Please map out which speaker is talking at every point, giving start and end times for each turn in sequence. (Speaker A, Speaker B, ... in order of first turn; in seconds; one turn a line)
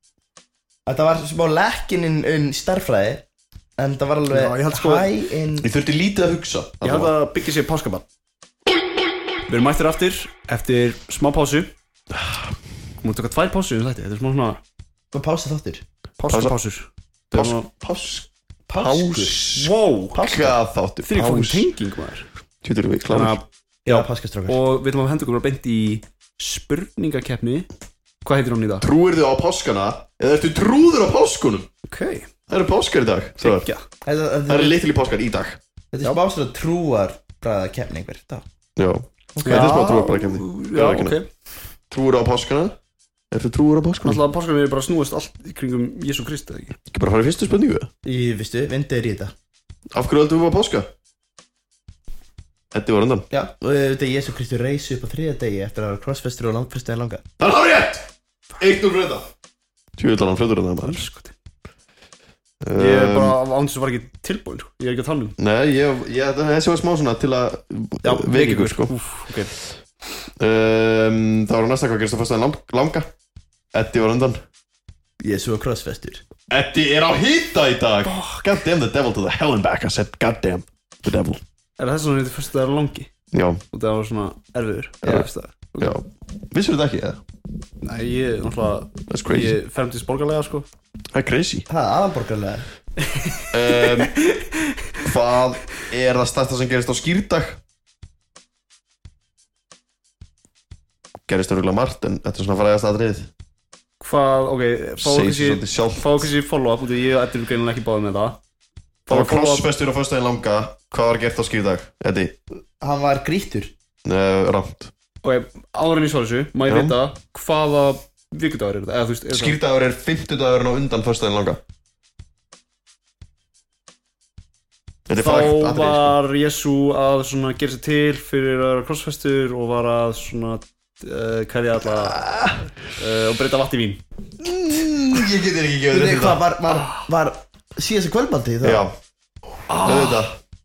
Speaker A: 0.9-3.2
Speaker A: 3.8-5.7
Speaker B: 4.3-5.1
Speaker C: 5.6-7.1
Speaker B: 6.8-8.1
Speaker B: 9.5-11.7
Speaker C: 12.2-12.5
Speaker B: 13.0-14.6
Speaker A: 15.1-15.8
Speaker B: 16.2-17.7
Speaker C: 16.3-16.6
Speaker C: 17.3-18.2
Speaker A: 18.7-19.4
Speaker C: 18.8-21.7
Speaker B: 19.4-20.4
Speaker A: 20.1-20.6
Speaker B: 21.0-22.3
Speaker C: 22.6-23.4
Speaker B: 23.1-27.7
Speaker A: 23.9-24.6
Speaker B: 28.2-28.9
Speaker C: 28.8-31.7
Speaker B: 31.9-32.3
Speaker C: 32.5-33.7
Speaker B: 33.4-33.8
Speaker A: 34.0-34.8
Speaker C: 34.5-35.6
Speaker A: 35.9-38.5
Speaker C: 38.8-41.2
Speaker A: 39.4-39.8
Speaker B: 39.4-41.3
Speaker C: 41.9-42.8
Speaker C: 43.3-44.2
Speaker B: 44.0-46.8
Speaker C: 46.9-47.9
Speaker A: 48.0-49.3
Speaker C: 49.9-50.9
Speaker C: 52.7-53.3
Speaker A: 53.3-57.2
Speaker C: 57.4-59.3
Speaker C: 60.0-61.1
Speaker B: 60.8-61.3
Speaker C: 62.6-63.4
Speaker B: 62.8-65.4
Speaker C: 65.4-69.3
Speaker B: 68.0-69.5
Speaker C: 70.4-73.1
Speaker C: 73.7-74.4
Speaker A: 75.2-76.2
Speaker C: 76.5-81.4
Speaker B: 78.0-78.5
Speaker B: 81.8-83.1
Speaker C: 83.3-83.6
Speaker B: 83.7-85.9
Speaker C: 85.0-87.2
Speaker B: 87.8-90.7
Speaker C: 89.1-89.5
Speaker C: 91.1-91.7
Speaker A: 91.7-92.7
Speaker B: 93.1-94.4
Speaker C: 93.5-94.2
Speaker C: 95.0-97.6
Speaker C: 101.3-103.3
Speaker B: 104.0-108.4
Speaker C: 105.0-106.3
Speaker B: 109.1-109.7
Speaker C: 109.1-112.4
Speaker A: 112.8-113.7
Speaker C: 114.0-114.9
Speaker B: 115.2-119.6
Speaker C: 116.7-117.0
Speaker C: 119.3-121.6
Speaker C: 125.1-126.2
Speaker B: 125.2-132.2
Speaker C: 132.0-132.6
Speaker B: 132.9-134.0
Speaker C: 134.4-136.5
Speaker A: 135.9-138.9
Speaker C: 138.6-138.9
Speaker B: 139.7-140.2
Speaker C: 139.8-140.4